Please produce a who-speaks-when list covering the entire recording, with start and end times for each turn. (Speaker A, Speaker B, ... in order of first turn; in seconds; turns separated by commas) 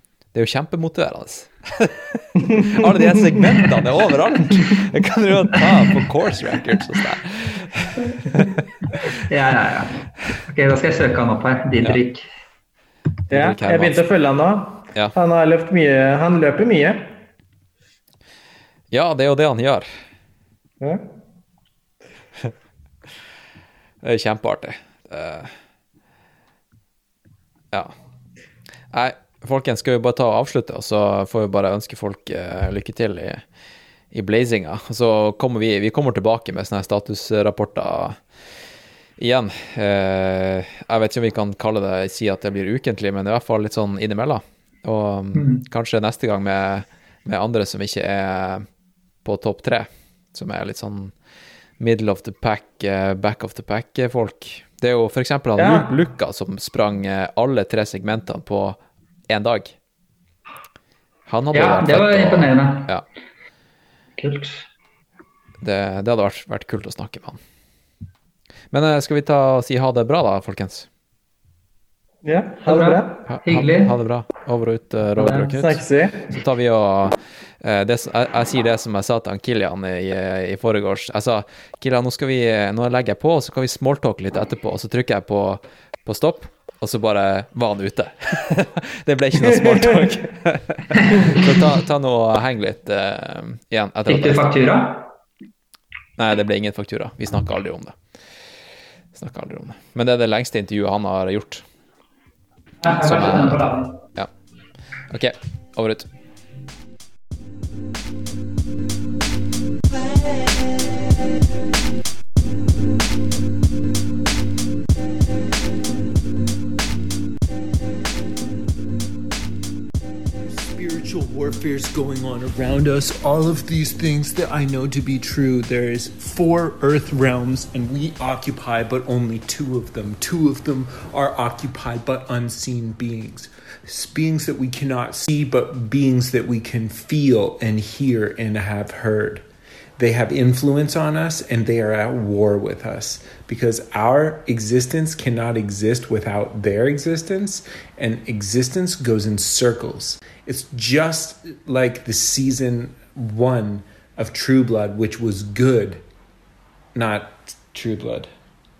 Speaker A: 0.3-8.5, Speaker B: 9.3-12.2, Speaker A: 13.3-14.0, Speaker C: 13.3-17.1, Speaker A: 18.9-19.9, Speaker C: 20.8-21.1, Speaker A: 24.0-25.5, Speaker A: 28.9-33.4, Speaker A: 34.1-38.2, Speaker A: 39.2-48.6, Speaker B: 45.4-45.6, Speaker A: 49.2-51.1, Speaker A: 51.8-59.8, Speaker C: 55.6-55.9, Speaker A: 61.3-63.0, Speaker B: 61.5-62.9, Speaker B: 64.2-64.7, Speaker A: 65.6-67.4, Speaker A: 68.7-70.9, Speaker C: 72.2-73.2, Speaker B: 72.7-74.0, Speaker A: 73.3-94.5, Speaker C: 75.3-76.3, Speaker B: 91.0-91.4, Speaker B: 94.1-95.1, Speaker A: 96.2-98.0, Speaker A: 99.1-101.7, Speaker B: 102.8-104.0, Speaker A: 102.8-103.6, Speaker A: 105.1-106.1, Speaker D: 120.4-139.4, Speaker D: 140.0-156.0, Speaker D: 156.9-158.3